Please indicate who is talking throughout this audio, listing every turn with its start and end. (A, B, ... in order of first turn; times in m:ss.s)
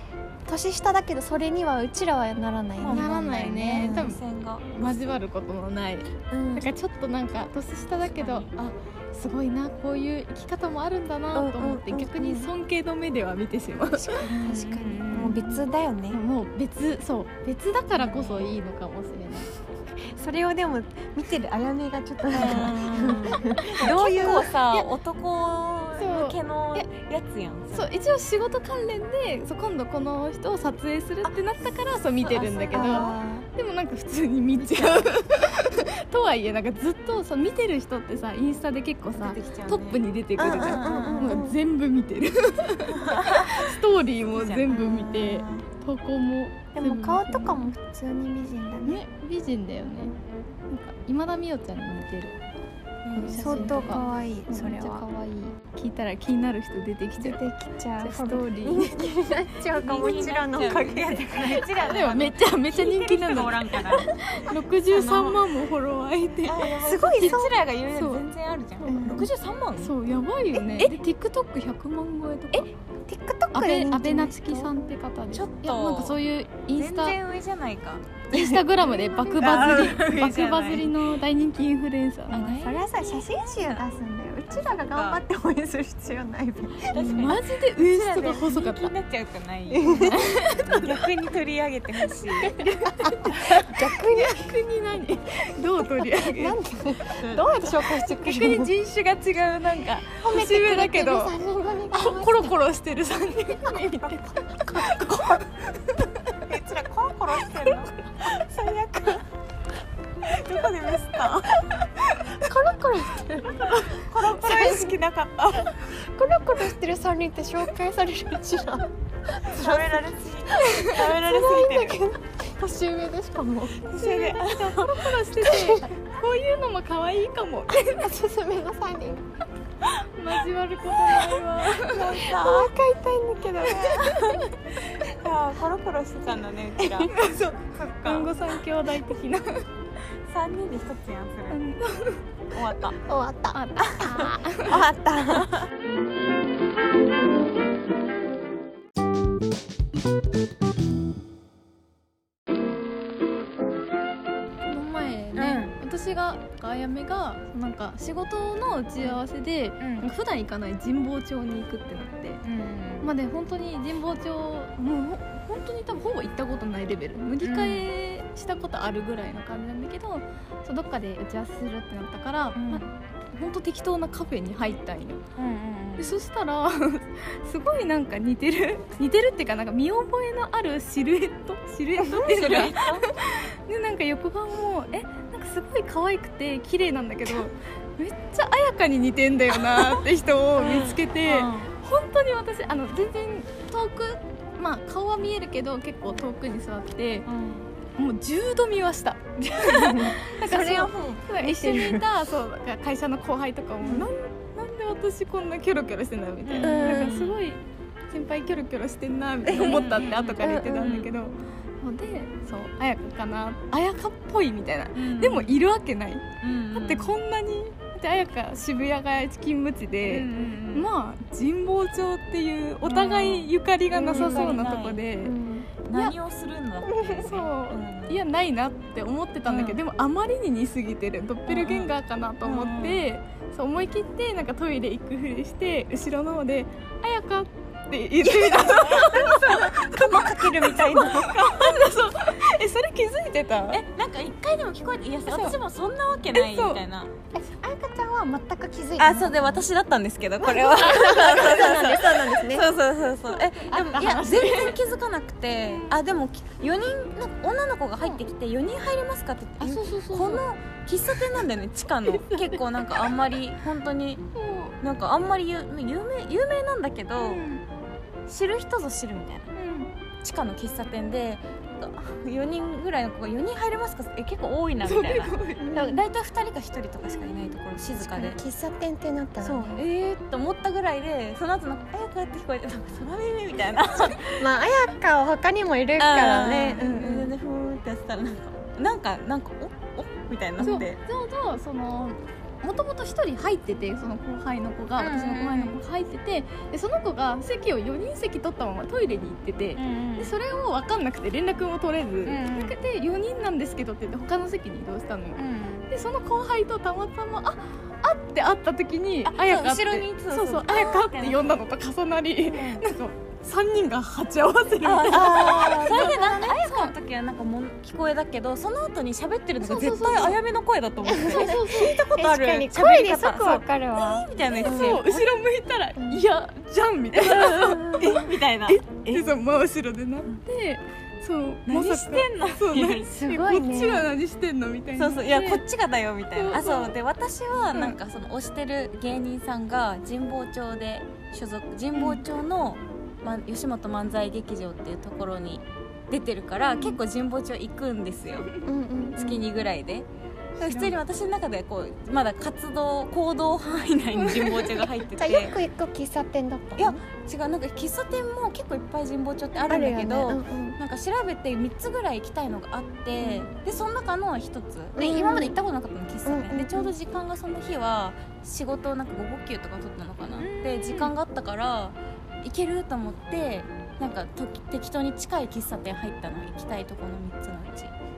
0:00.5-0:04.2 A
0:02.8-0:05.0 B
0:02.9-0:04.2 C
0:04.8-0:14.3 C
0:06.3-0:06.7 A
0:08.0-0:08.5 B
0:11.3-0:12.5 A
0:13.9-0:16.2 A
0:14.3-0:15.7 B
0:15.0-0:15.5 C
0:16.1-0:19.5 C
0:18.0-0:18.6 B
0:20.0-0:24.5 A
0:22.3-0:27.9 B
0:23.6-0:24.9 C
0:26.0-0:26.9 C
0:27.7-0:47.7 C
0:32.2-0:33.2 B
0:32.7-0:33.5 A
0:34.6-0:35.1 B
0:39.1-0:41.5 B
0:40.4-0:41.6 A
0:43.0-0:43.8 B
0:44.3-0:45.7 B
0:46.8-0:49.0 A
0:48.8-0:50.2 C
0:50.7-0:52.4 C
0:53.0-0:54.1 B
0:53.2-0:57.4 C
0:53.4-0:55.3 A
0:57.2-1:01.7 A
0:58.0-0:59.0 C
0:59.7-1:04.1 B
1:01.8-1:06.7 C
1:04.9-1:05.4 B
1:06.4-1:09.9 B
1:06.7-1:07.5 A
1:07.9-1:08.2 C
1:08.8-1:09.3 A
1:08.9-1:12.7 C
1:12.5-1:14.9 A
1:13.5-1:17.2 C
1:15.3-1:16.2 B
1:16.7-1:21.0 B
1:18.3-1:22.5 C
1:18.8-1:20.0 A
1:22.3-1:23.9 B
1:22.3-1:27.3 A
1:24.5-1:25.2 B
1:26.9-1:32.7 B
1:26.9-1:28.9 C
1:29.7-1:30.2 A
1:29.8-1:30.9 C
1:32.4-1:36.6 C
1:33.0-1:34.5 A
1:35.8-1:38.7 A
1:37.2-1:37.9 B
1:38.1-1:41.3 C
1:40.2-1:42.6 A
1:41.9-1:46.0 C
1:44.6-1:45.4 A
1:46.5-1:49.2 B
1:50.3-1:51.7 B
1:52.3-1:54.9 A
1:54.0-1:55.9 B
1:55.9-2:03.9 A
1:59.4-2:02.0 B
2:03.9-2:08.1 C
2:03.9-2:05.4 B
2:05.4-2:05.9 A
2:07.8-2:09.2 A
2:10.2-2:12.3 C
2:11.0-2:12.8 B
2:12.4-2:14.1 A
2:13.6-2:17.2 B
2:14.1-2:14.5 C
2:16.8-2:17.1 A
2:17.1-2:19.6 C
2:17.7-2:18.6 B
2:20.3-2:21.6 B
2:21.5-2:22.2 C
2:22.5-2:23.0 B
2:23.1-2:25.6 A
2:23.5-2:24.8 C
2:34.7-2:42.4 C
2:35.4-2:35.7 B
2:39.8-2:40.1 B
2:42.4-2:43.1 B
2:43.0-2:55.2 C
2:47.4-2:47.9 B
2:52.6-2:52.9 B
2:55.4-2:56.2 B
2:56.0-3:17.3 C
3:02.0-3:03.1 B
3:10.6-3:11.0 A
3:10.6-3:11.7 B
3:17.3-3:17.7 B
3:18.0-3:45.4 C
3:19.6-3:22.0 A
3:20.4-3:21.2 B
3:23.8-3:24.1 A
3:26.4-3:27.4 B
3:26.6-3:27.2 A
3:29.5-3:29.8 A
3:29.5-3:31.1 B
3:30.4-3:30.7 A
3:34.9-3:35.6 B
3:36.4-3:37.2 B
3:40.0-3:40.9 B
3:42.8-3:43.5 B
3:43.9-3:44.6 A
3:44.1-3:45.0 B
3:45.2-3:45.7 A
3:45.9-3:48.2 B
3:46.8-4:03.8 C
3:49.5-3:49.8 B
3:51.5-3:51.9 B
3:52.4-3:53.1 B
3:58.2-4:01.9 B
4:03.7-4:07.1 B
4:05.3-4:05.6 C
4:06.3-4:06.8 C
4:07.3-4:09.7 A
4:09.0-4:24.2 B
4:10.4-4:12.7 A
4:13.2-4:14.8 C
4:13.7-4:14.4 A
4:19.6-4:20.4 C
4:22.1-4:22.6 C
4:24.3-4:24.8 C
4:24.8-4:27.5 B
4:27.2-4:27.6 C
4:28.3-4:29.5 B
4:29.6-4:29.9 C
4:30.2-4:38.4 B
4:34.8-4:35.8 C
4:35.6-4:36.0 A
4:37.2-4:39.8 A
4:39.4-4:44.5 B
4:44.4-4:47.3 A
4:46.0-4:51.0 B
4:46.7-4:47.0 C
4:50.6-5:17.0 C
4:55.0-4:55.8 B
4:59.8-5:00.4 B
5:02.2-5:02.8 B
5:05.4-5:05.9 B
5:09.2-5:11.6 B
5:12.4-5:12.8 B
5:14.8-5:25.2 B
5:15.1-5:16.1 A
5:19.6-5:20.4 C
5:21.1-5:25.2 A
5:21.1-5:22.0 C
5:24.4-5:35.6 C
5:26.0-5:26.2 A
5:27.1-5:29.4 B
5:27.7-5:28.2 A
5:31.7-5:33.2 B
5:33.1-5:34.1 A
5:35.0-5:48.5 B
5:36.3-5:37.0 C
5:41.9-5:42.2 C
5:46.6-5:47.0 C
5:48.3-5:48.7 C
5:48.6-5:49.5 A
5:49.1-5:50.1 B
5:50.6-5:55.6 B
5:50.6-5:51.0 C
5:54.2-5:54.8 C
5:55.2-5:57.0 A
5:56.8-6:17.9 B
5:59.7-6:00.8 A
6:03.2-6:03.4 A
6:05.0-6:05.6 A
6:06.2-6:06.9 A
6:10.4-6:11.1 C